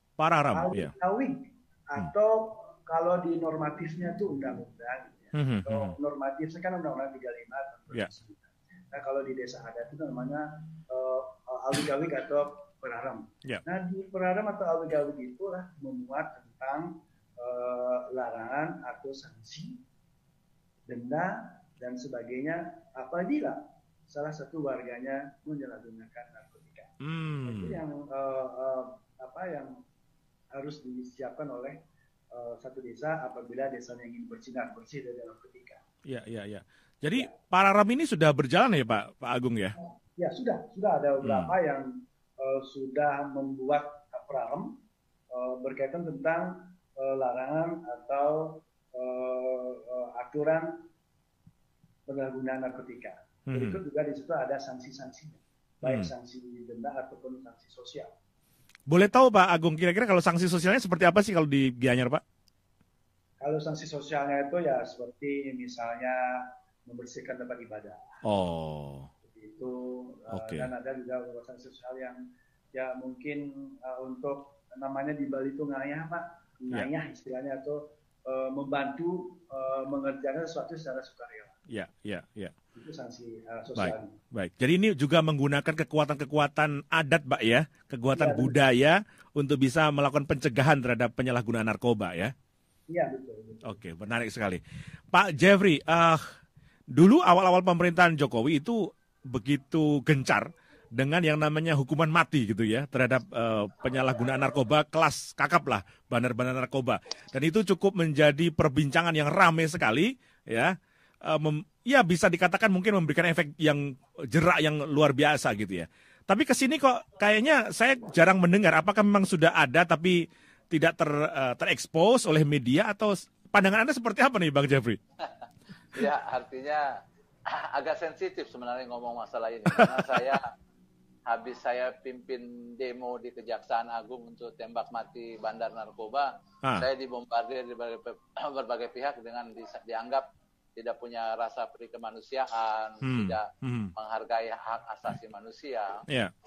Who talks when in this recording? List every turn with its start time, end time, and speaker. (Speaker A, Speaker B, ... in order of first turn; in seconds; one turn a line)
Speaker A: 0.2-0.9
Speaker B: 0.5-19.8
Speaker A: 5.3-6.0
Speaker B: 20.9-29.8
Speaker A: 27.0-27.8
Speaker B: 30.5-35.8
Speaker A: 36.1-39.8
Speaker B: 39.8-44.8
Speaker A: 41.2-41.5
Speaker B: 45.3-50.9
Speaker B: 52.1-58.1
Speaker A: 53.5-53.8
Speaker A: 55.8-56.1
Speaker A: 58.9-62.2
Speaker B: 63.4-68.2
Speaker A: 68.2-69.1
Speaker B: 69.2-81.6
Speaker A: 70.3-70.7
Speaker A: 81.7-82.5
Speaker B: 82.8-84.2
Speaker A: 83.8-92.3
Speaker B: 88.1-88.6
Speaker B: 92.9-93.8
Speaker A: 93.6-94.6
Speaker A: 95.1-96.2
Speaker A: 96.9-125.0
Speaker C: 125.9-127.0
Speaker C: 127.5-130.4
Speaker A: 129.7-130.2
Speaker C: 131.3-146.1
Speaker A: 143.0-143.9